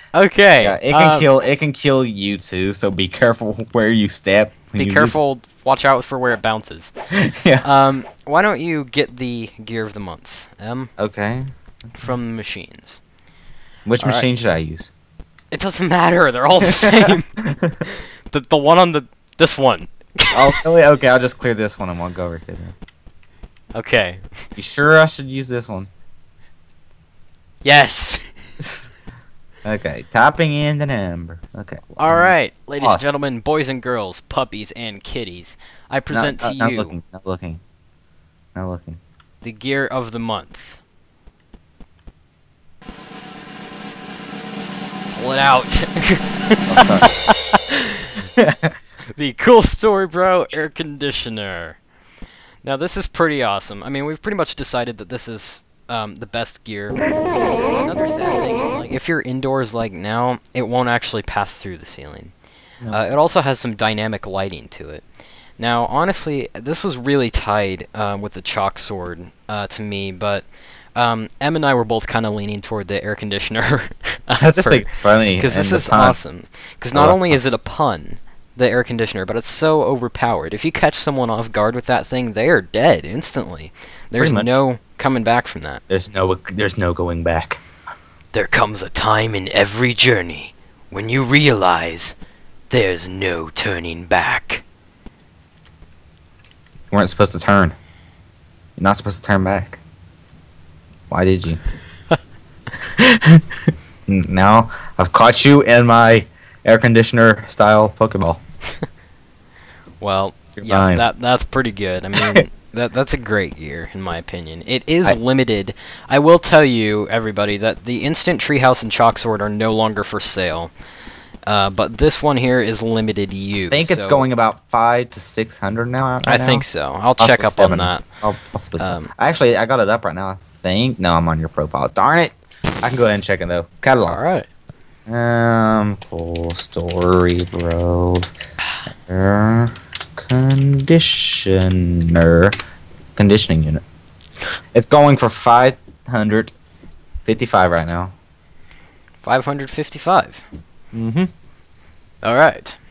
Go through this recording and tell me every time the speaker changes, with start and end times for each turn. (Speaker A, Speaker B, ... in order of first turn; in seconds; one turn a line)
Speaker A: 0.1-1.3
Speaker B: 0.6-5.2
Speaker A: 4.8-6.9
Speaker B: 7.1-7.7
Speaker A: 7.6-10.9
Speaker B: 11.0-12.1
Speaker A: 12.0-13.0
Speaker B: 13.9-14.9
Speaker A: 14.0-14.5
Speaker A: 15.5-17.3
Speaker B: 16.6-17.9
Speaker A: 17.8-20.6
Speaker B: 20.3-22.8
Speaker A: 23.7-24.3
Speaker B: 24.6-25.9
Speaker A: 27.6-28.5
Speaker B: 28.6-28.9
Speaker B: 29.6-33.1
Speaker A: 32.0-37.0
Speaker B: 36.1-37.6
Speaker B: 38.5-39.0
Speaker A: 39.4-40.8
Speaker A: 45.1-48.2
Speaker B: 46.7-47.1
Speaker B: 48.4-48.8
Speaker A: 49.1-51.8
Speaker A: 52.6-57.0
Speaker A: 57.7-62.3
Speaker A: 62.9-65.0
Speaker A: 65.6-85.8
Speaker B: 74.4-76.2
Speaker B: 76.9-77.4
Speaker B: 84.2-84.5
Speaker B: 85.9-87.6
Speaker A: 88.3-92.2
Speaker A: 92.7-94.6
Speaker B: 96.9-97.8
Speaker B: 98.8-99.8
Speaker B: 101.1-101.6
Speaker B: 103.0-103.4
Speaker B: 104.1-108.4
Speaker A: 110.0-120.7
Speaker B: 110.6-111.0
Speaker B: 112.2-112.5
Speaker A: 121.5-124.3
Speaker B: 123.7-126.7
Speaker A: 126.2-128.1
Speaker B: 127.2-134.2
Speaker A: 128.8-129.1
Speaker A: 134.0-134.5
Speaker B: 135.1-138.3
Speaker B: 139.1-142.6
Speaker B: 143.2-143.8
Speaker B: 144.7-146.5
Speaker B: 147.2-148.1
Speaker A: 149.2-150.5
Speaker B: 150.9-151.3
Speaker A: 152.2-152.8